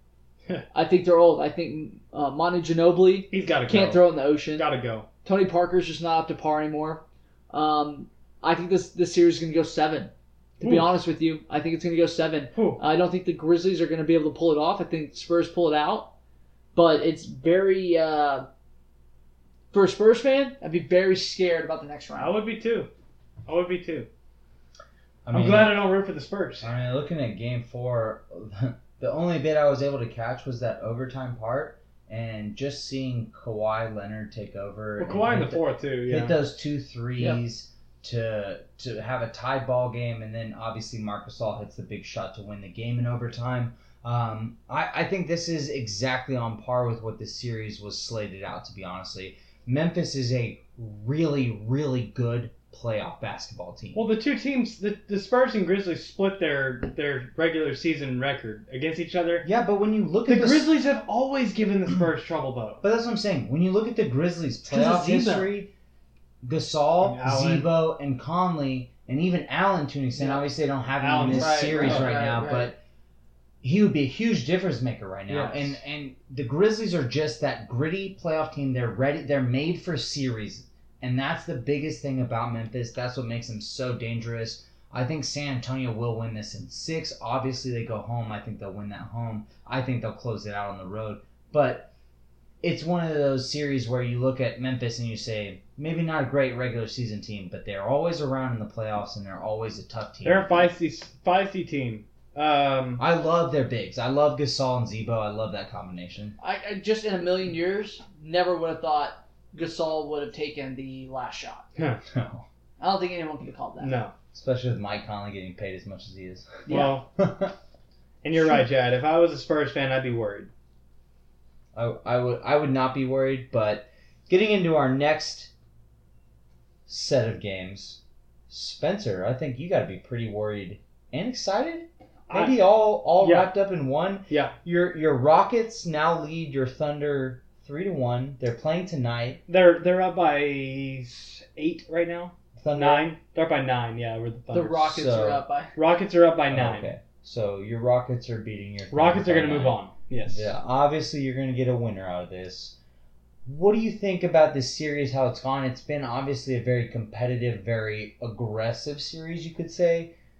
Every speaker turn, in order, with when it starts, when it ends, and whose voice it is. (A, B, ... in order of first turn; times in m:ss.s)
0:00.7-0:04.7 A
0:03.3-0:05.0 B
0:05.2-0:16.1 A
0:10.6-0:10.9 B
0:12.5-0:12.8 B
0:16.7-0:18.5 A
0:19.7-0:22.4 A
0:22.2-0:22.9 B
0:23.5-0:24.1 B
0:25.2-0:25.8 C
0:25.3-0:26.7 B
0:26.6-0:54.1 C
0:35.0-0:36.4 B
0:53.9-0:59.5 B
0:59.4-1:00.7 C
1:00.3-1:02.8 B
1:02.8-1:05.7 C
1:04.7-1:05.5 B
1:06.4-1:12.8 C
1:07.0-1:07.7 B
1:11.0-1:12.1 B
1:11.3-1:12.7 A
1:13.6-1:31.9 C
1:15.3-1:15.8 B
1:32.6-1:40.7 C
1:40.2-1:43.0 B
1:43.0-1:46.4 C
1:46.4-1:51.6 A
1:51.8-1:52.0 B
1:52.1-1:52.5 C
1:52.8-1:54.0 A
1:53.8-1:54.1 B
1:54.3-1:56.7 C
1:56.6-1:57.0 A
1:56.7-1:57.1 B
1:57.2-1:57.5 C
1:58.2-2:00.5 B
2:01.7-2:05.5 C
2:06.9-2:19.4 C
2:12.3-2:12.6 B
2:13.2-2:13.5 B
2:14.3-2:14.6 B
2:19.5-2:25.0 B
2:22.6-2:23.1 C
2:24.5-2:25.7 A
2:24.9-2:25.4 C
2:25.7-2:26.9 B
2:26.5-2:32.8 C
2:28.9-2:30.5 B
2:33.4-2:40.1 C